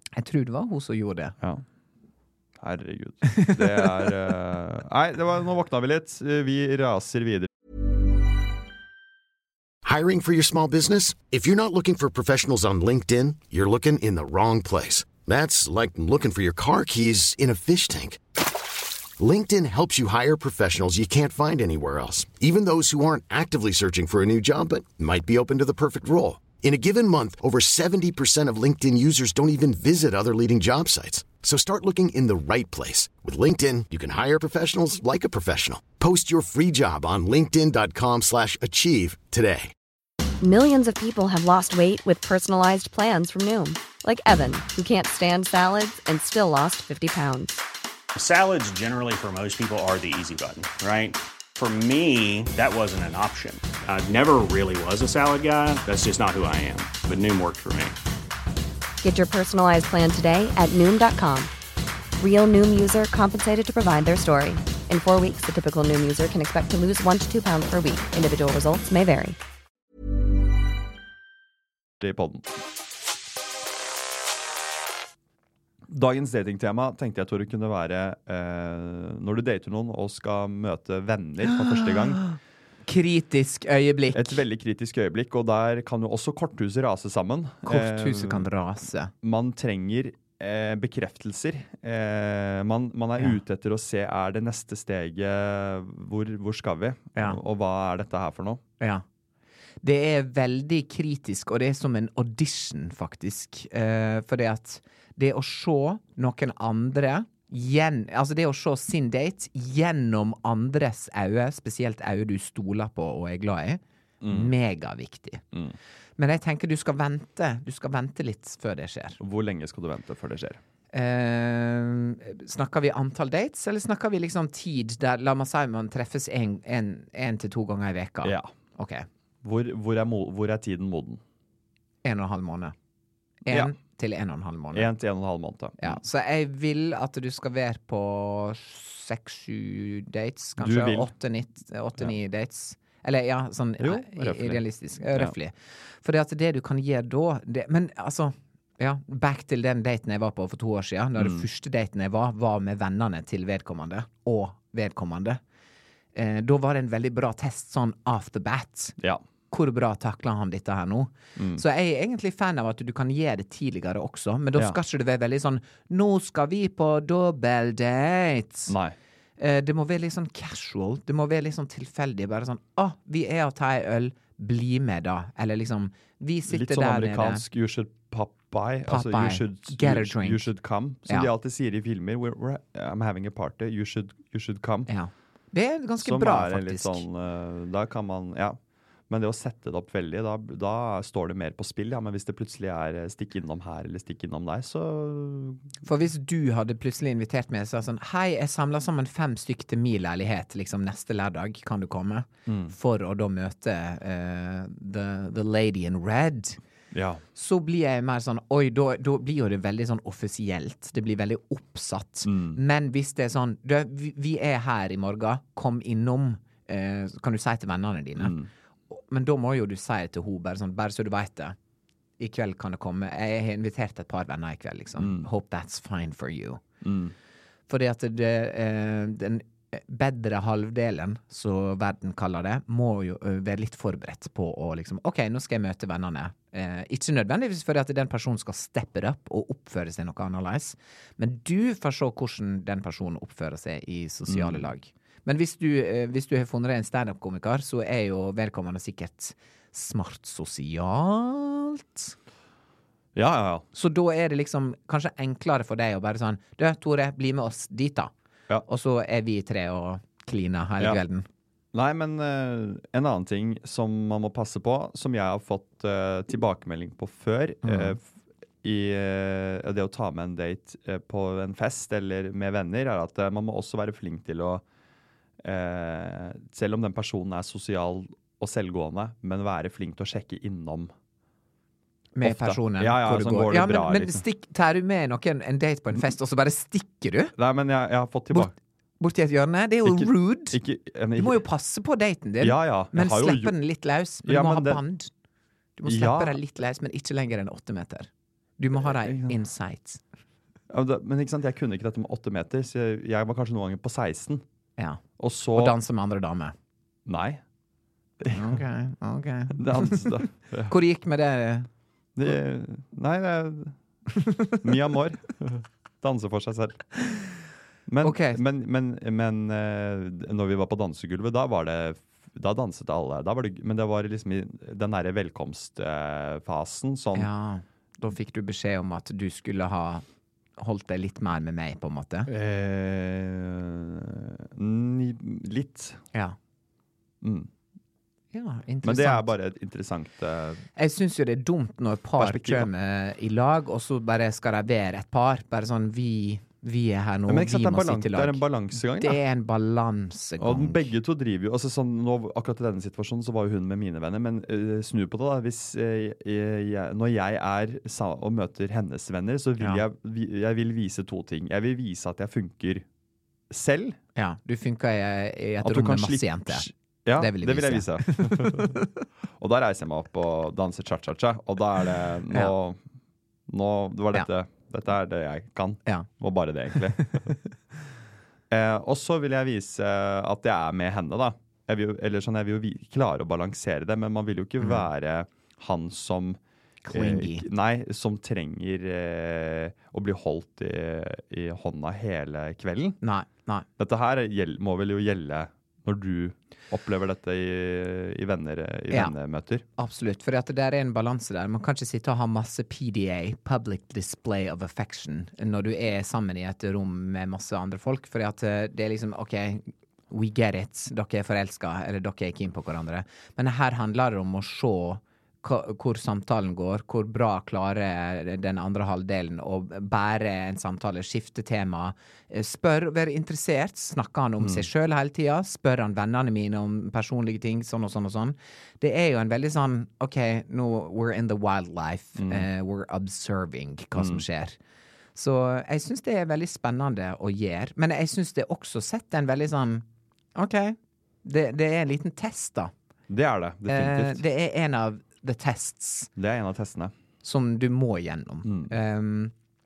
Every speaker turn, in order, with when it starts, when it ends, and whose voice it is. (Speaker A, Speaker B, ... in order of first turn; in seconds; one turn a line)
Speaker A: 0.2-1.4
Speaker B: 2.6-7.5
Speaker A: 3.3-3.8
Speaker C: 9.8-18.2
Speaker C: 19.2-39.7
Speaker D: 40.4-47.6
Speaker E: 48.1-58.0
Speaker D: 59.0-61.5
Speaker D: 62.2-69.4
Speaker B: 72.0-72.5
Speaker B: 75.9-82.2
Speaker A: 81.7-82.3
Speaker A: 82.9-84.4
Speaker B: 84.1-88.5
Speaker A: 87.7-89.1
Speaker B: 89.2-98.6
Speaker A: 99.8-115.4
Speaker B: 114.2-114.5
Speaker A: 116.2-119.2
Speaker B: 119.2-120.6
Speaker A: 120.9-129.1
Speaker B: 128.2-128.5
Speaker B: 129.4-131.2
Speaker A: 132.0-132.7
Speaker A: 133.5-134.9
Speaker B: 133.5-133.8
Speaker B: 134.7-136.0
Speaker A: 135.8-155.4
Speaker B: 140.6-141.1
Speaker B: 143.8-144.6
Speaker B: 151.2-151.4
Speaker A: 156.2-159.0
Speaker A: 159.5-168.8
Speaker B: 161.4-161.6
Speaker B: 168.7-169.0
Speaker A: 169.4-177.4
Speaker B: 176.5-184.9
Speaker A: 178.9-180.5
Speaker A: 184.9-187.1
Speaker B: 186.0-188.6
Speaker B: 189.1-195.6
Speaker A: 195.8-206.6
Speaker B: 202.5-202.7
Speaker B: 206.9-207.2
Speaker A: 207.3-218.4
Speaker B: 212.2-212.6
Speaker B: 218.2-218.5
Speaker A: 218.9-221.6
Speaker A: 222.2-226.6
Speaker B: 225.0-225.3
Speaker B: 226.8-227.1
Speaker A: 227.7-252.2
Speaker B: 244.3-244.7
Speaker B: 253.2-253.7
Speaker A: 253.7-258.1
Speaker A: 258.6-261.2
Speaker B: 261.7-268.0
Speaker A: 267.6-268.0
Speaker B: 268.6-274.6
Speaker B: 275.4-280.9
Speaker A: 282.2-287.3
Speaker B: 282.2-284.2
Speaker B: 287.4-288.5
Speaker A: 288.3-290.6
Speaker B: 289.9-291.4
Speaker A: 291.2-295.1
Speaker B: 292.4-293.6
Speaker B: 294.2-294.8
Speaker A: 295.8-300.0
Speaker B: 295.9-296.4
Speaker B: 298.8-299.4
Speaker B: 300.7-304.4
Speaker B: 305.2-305.8
Speaker A: 305.5-306.5
Speaker B: 307.1-307.4
Speaker B: 308.2-308.6
Speaker A: 308.3-311.7
Speaker B: 309.6-310.7
Speaker B: 312.2-313.8
Speaker B: 314.6-316.9
Speaker B: 317.9-327.3
Speaker A: 318.0-318.4
Speaker A: 327.1-330.1
Speaker A: 330.6-332.3
Speaker B: 332.3-336.0
Speaker B: 337.2-337.5
Speaker A: 338.3-339.3
Speaker B: 338.8-340.6
Speaker A: 340.8-350.9
Speaker B: 342.2-342.7
Speaker B: 347.3-349.2
Speaker B: 350.4-362.9
Speaker B: 363.5-364.0
Speaker A: 364.1-368.9
Speaker B: 365.6-368.8
Speaker B: 369.4-372.8
Speaker B: 373.5-377.3
Speaker B: 378.5-386.4
Speaker A: 386.9-387.5
Speaker B: 386.9-393.0
Speaker A: 393.0-393.7
Speaker B: 393.8-399.6
Speaker A: 399.8-434.6
Speaker B: 424.4-424.7
Speaker B: 432.2-432.5
Speaker B: 434.0-434.2
Speaker A: 435.1-442.7
Speaker B: 443.1-444.2
Speaker A: 443.7-446.1
Speaker B: 446.2-446.9
Speaker A: 447.2-449.3
Speaker B: 448.4-448.7